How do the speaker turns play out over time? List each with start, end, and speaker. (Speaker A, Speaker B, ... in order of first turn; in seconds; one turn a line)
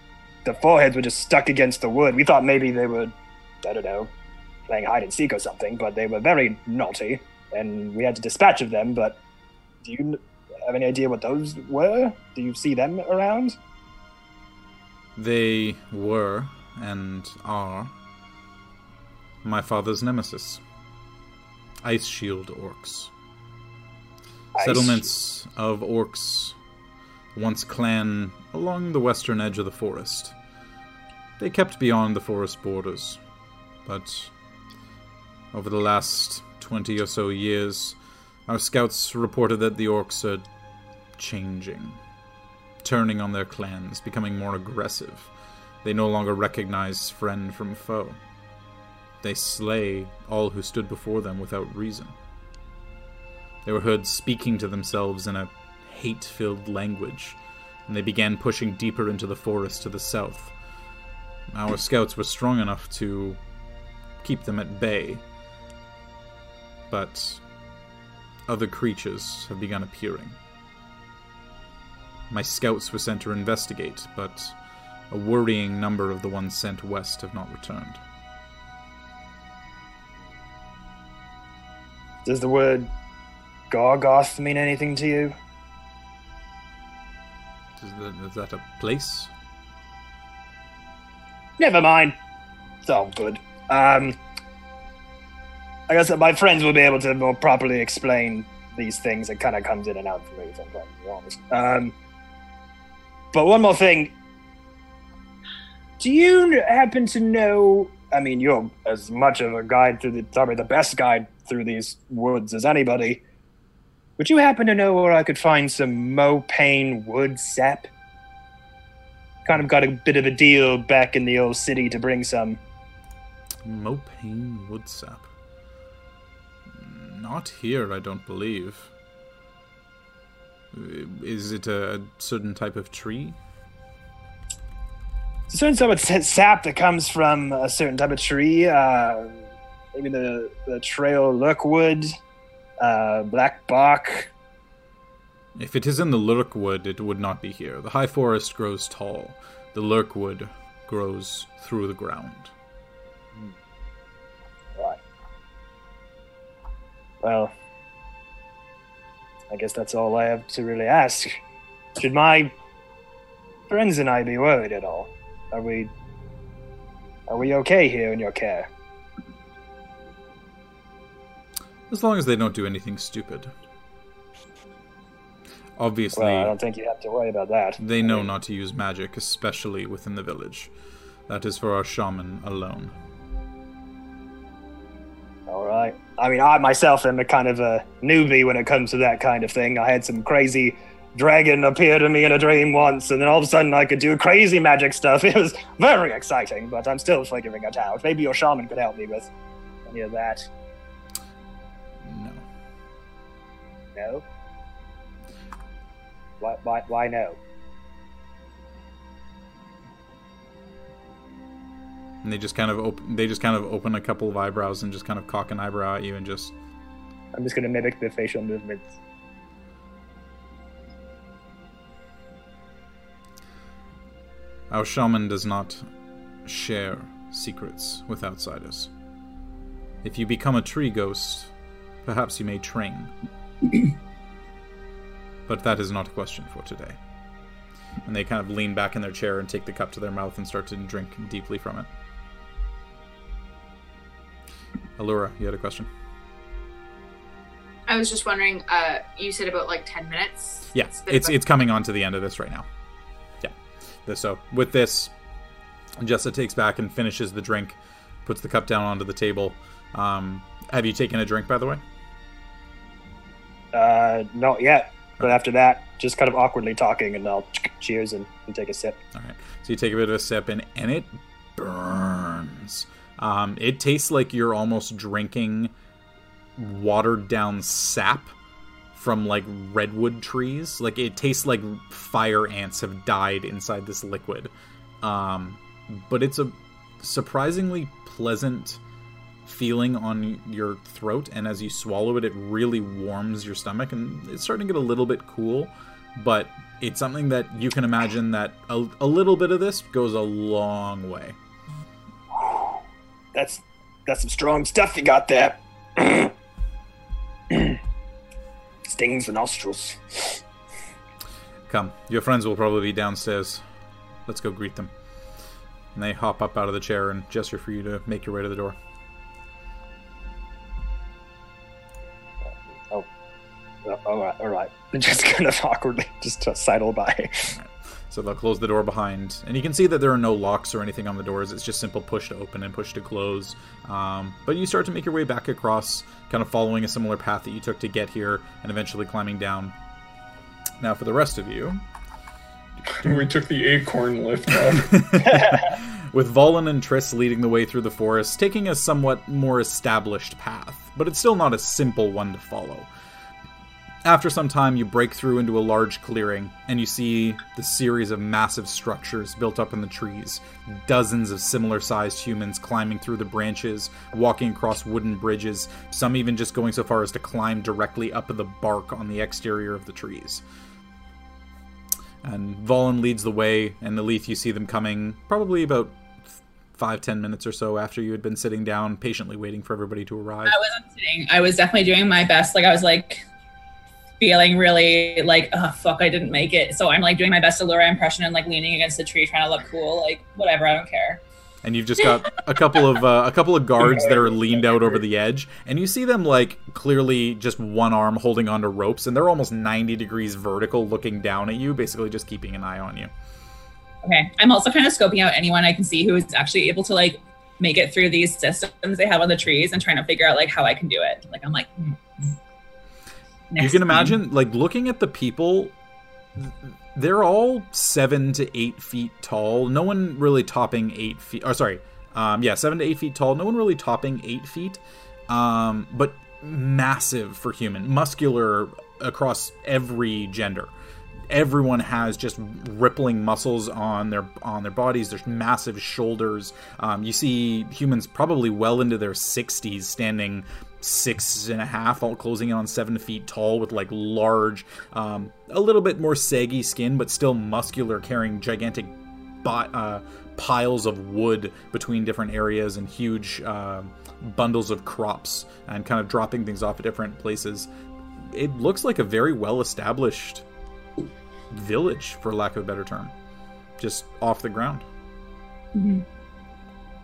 Speaker A: 0.4-4.1
Speaker A: 4.7-9.2
Speaker A: 9.8-13.6
Speaker B: 15.2-17.9
Speaker B: 19.4-20.6
Speaker B: 21.8-23.1
Speaker A: 24.6-25.1
Speaker B: 24.6-26.6
Speaker B: 27.3-30.3
Speaker B: 31.4-33.2
Speaker B: 33.8-34.3
Speaker B: 35.5-40.4
Speaker B: 41.2-42.0
Speaker B: 42.8-45.3
Speaker B: 45.8-48.2
Speaker B: 49.2-52.1
Speaker B: 53.6-60.5
Speaker B: 61.5-63.4
Speaker B: 64.2-65.2
Speaker B: 66.9-67.4
Speaker B: 68.5-70.4
Speaker B: 72.3-74.5
Speaker B: 75.1-78.0
Speaker A: 82.2-82.9
Speaker A: 83.7-85.3
Speaker B: 87.8-89.3
Speaker A: 91.6-92.2
Speaker A: 92.8-94.2
Speaker A: 95.9-101.9
Speaker A: 103.3-104.1
Speaker A: 106.0-113.2
Speaker A: 114.2-117.9
Speaker A: 119.4-122.6
Speaker B: 123.6-125.3
Speaker B: 126.7-128.9
Speaker B: 130.7-133.4
Speaker A: 135.5-139.4
Speaker A: 139.9-142.1
Speaker A: 142.8-144.3
Speaker B: 145.6-152.5
Speaker A: 157.2-157.5
Speaker A: 159.5-161.4
Speaker A: 162.0-162.5
Speaker A: 163.7-165.9
Speaker A: 167.3-168.7
Speaker B: 171.9-173.5
Speaker B: 175.8-176.5
Speaker A: 176.2-178.3
Speaker B: 177.8-180.7
Speaker B: 181.3-182.9
Speaker A: 185.5-199.3
Speaker A: 199.8-200.4
Speaker B: 202.0-202.4
Speaker A: 203.9-204.2
Speaker A: 206.4-207.4
Speaker B: 212.2-216.5
Speaker A: 217.3-218.9
Speaker B: 224.7-225.8
Speaker B: 226.4-228.9
Speaker B: 230.0-231.5
Speaker B: 232.0-233.1
Speaker B: 235.4-237.0
Speaker B: 238.0-241.9
Speaker B: 245.0-245.9
Speaker C: 247.9-251.3
Speaker B: 250.7-252.7
Speaker B: 253.4-255.1
Speaker B: 256.0-261.8
Speaker A: 263.7-269.0
Speaker B: 269.1-275.7
Speaker B: 276.6-278.3
Speaker B: 278.9-284.5
Speaker B: 285.0-288.8
Speaker B: 289.4-301.4
Speaker A: 302.4-302.7
Speaker A: 303.3-306.3
Speaker A: 307.5-307.8
Speaker A: 308.9-310.4
Speaker B: 311.7-313.6
Speaker B: 314.2-314.9
Speaker B: 315.9-318.8
Speaker A: 322.4-323.1
Speaker A: 323.8-327.5
Speaker B: 327.5-339.7
Speaker B: 340.8-341.8
Speaker D: 343.0-345.2
Speaker B: 344.7-352.9
Speaker A: 345.4-345.7
Speaker B: 354.0-370.4
Speaker B: 372.2-380.6
Speaker E: 380.5-383.2
Speaker E: 384.2-391.2
Speaker B: 391.6-403.1
Speaker D: 393.9-394.8
Speaker E: 404.0-412.4
Speaker E: 413.5-414.2
Speaker B: 413.6-415.7
Speaker B: 416.4-430.7
Speaker B: 431.3-457.7
Speaker B: 458.2-460.4
Speaker B: 461.5-463.1
Speaker B: 463.8-464.8
Speaker E: 465.7-466.0